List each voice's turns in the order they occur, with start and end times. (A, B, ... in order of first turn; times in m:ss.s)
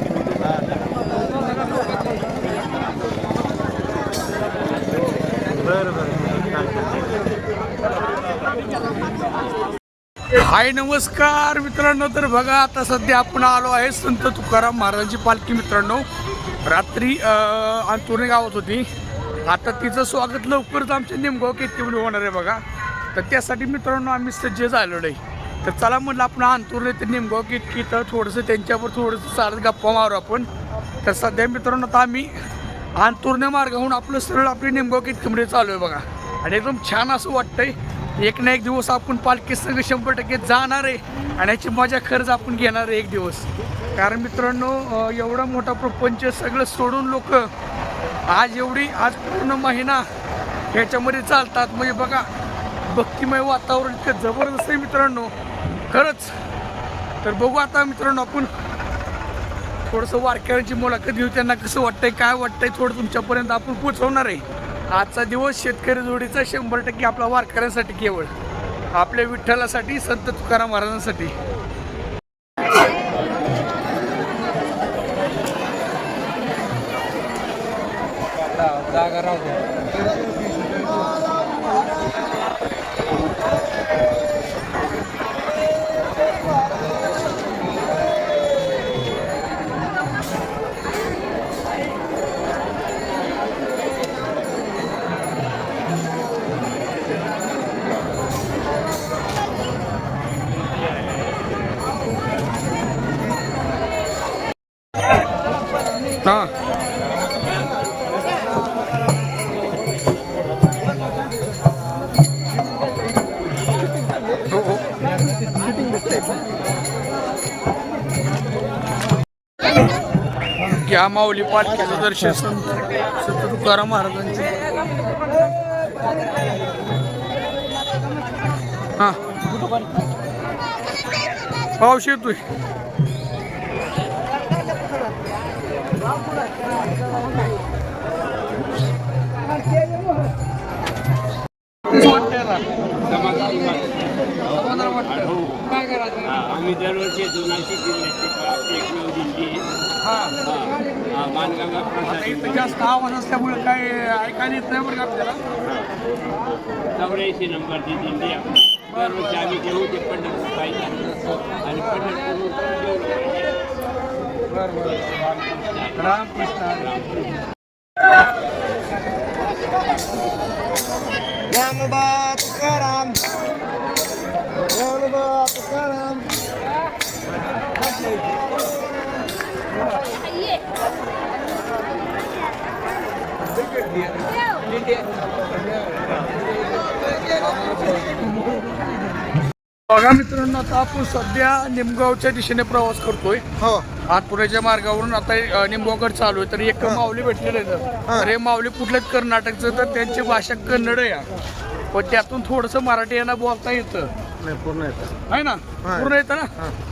0:05.5-0:07.1 A
0:10.3-0:16.0 B
0:16.6-0:18.8 B
0:19.4-0:22.6 B
0:23.1-0:30.5 B
0:31.0-0:32.4 B
0:33.0-0:47.5 B
0:48.3-0:50.0 B
0:50.7-0:52.3 B
0:52.8-0:55.3 B
0:55.9-0:56.3 B
0:57.2-0:58.5 B
0:59.8-1:08.3 B
1:08.9-1:11.3 B
1:18.7-1:19.5 B
1:46.2-1:46.5 B
1:54.5-1:54.8 B
2:00.6-2:04.6 B
2:11.8-2:12.4 B
2:21.9-2:22.6 B
2:23.0-2:25.6 C
2:24.5-2:26.6 B
2:26.2-2:29.6 C
2:30.0-2:30.4 B
2:30.4-2:32.8 C
2:32.0-2:35.4 B
2:35.6-2:35.9 C
2:36.9-2:43.3 C
2:44.5-2:45.0 B
2:45.4-2:46.1 C
2:46.0-2:46.9 B
2:46.7-2:47.3 C
2:51.5-2:53.3 A
2:54.6-2:56.3 A
3:07.4-3:08.2 B
3:09.9-3:13.4 B
3:13.6-3:13.9 A
3:14.1-3:21.3 B
3:16.8-3:17.0 A
3:18.1-3:18.3 A
3:21.9-3:24.1 B
3:24.4-3:25.1 A
3:25.3-3:26.5 B
3:25.8-3:26.7 A